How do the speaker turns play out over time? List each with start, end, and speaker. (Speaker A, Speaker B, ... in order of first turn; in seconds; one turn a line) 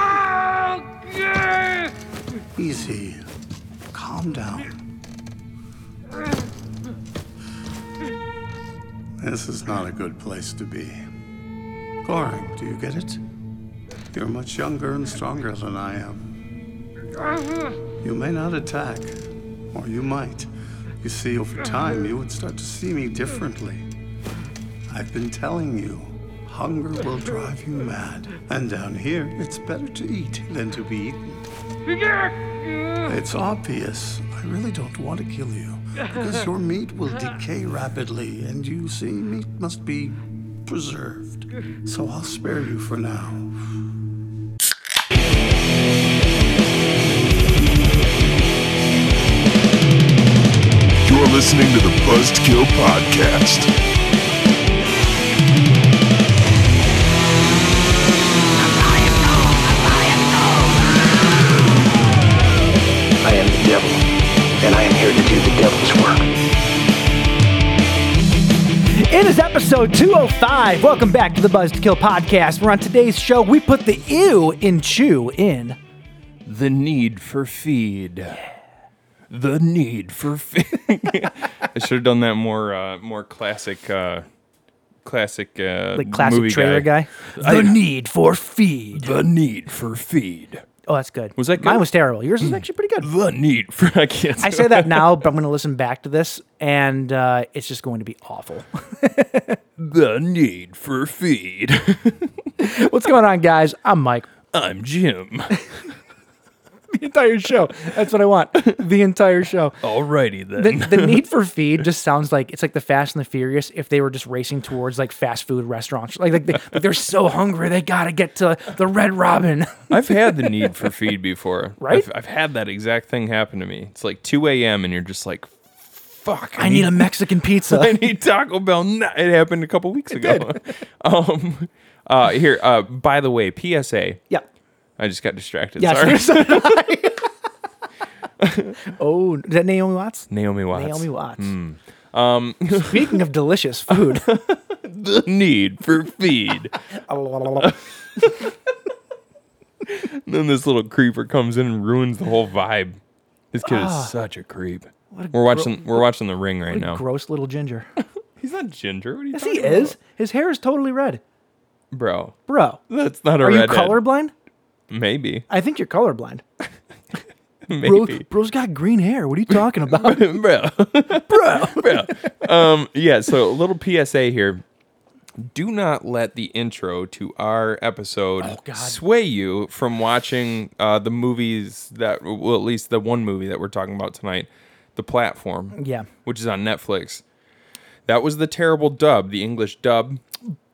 Speaker A: 2.5-3.3
Speaker A: 3.9-4.8
Speaker A: 9.2-11.0
Speaker A: 12.0-13.2
Speaker A: 14.1-16.3
Speaker A: 18.0-19.2
Speaker A: 19.7-20.5
Speaker A: 21.0-23.9
Speaker A: 24.9-31.4
Speaker A: 33.0-43.5
Speaker B: 51.0-53.7
Speaker C: 58.8-60.7
Speaker C: 63.2-64.0
Speaker C: 64.6-66.2
Speaker D: 68.9-75.8
Speaker E: 76.4-78.4
Speaker E: 79.3-84.2
Speaker E: 85.0-87.8
Speaker D: 85.9-89.1
Speaker E: 88.9-90.6
Speaker D: 90.9-93.1
Speaker E: 91.3-91.8
Speaker E: 92.4-95.2
Speaker D: 94.4-99.6
Speaker E: 99.8-102.5
Speaker D: 102.6-104.3
Speaker E: 104.5-105.6
Speaker D: 106.9-109.8
Speaker E: 109.8-111.2
Speaker D: 110.5-120.5
Speaker E: 119.9-134.2
Speaker D: 121.8-122.0
Speaker D: 126.6-127.9
Speaker D: 130.1-130.5
Speaker E: 135.0-136.8
Speaker D: 135.8-137.3
Speaker E: 138.4-138.8
Speaker D: 138.8-141.5
Speaker E: 140.3-143.2
Speaker D: 142.7-144.3
Speaker E: 143.9-146.7
Speaker D: 146.9-148.2
Speaker E: 147.6-148.5
Speaker E: 149.8-153.0
Speaker E: 153.5-157.0
Speaker D: 153.6-154.1
Speaker D: 155.1-156.1
Speaker D: 156.7-157.9
Speaker E: 158.4-159.9
Speaker D: 159.3-161.2
Speaker E: 161.9-162.4
Speaker D: 162.5-162.8
Speaker E: 162.9-164.0
Speaker D: 163.4-164.3
Speaker E: 164.9-165.4
Speaker D: 165.5-166.4
Speaker E: 167.7-168.2
Speaker D: 167.8-170.3
Speaker E: 169.5-174.6
Speaker D: 171.1-172.2
Speaker E: 175.4-187.2
Speaker D: 178.4-179.0
Speaker D: 185.7-186.1
Speaker E: 188.1-190.2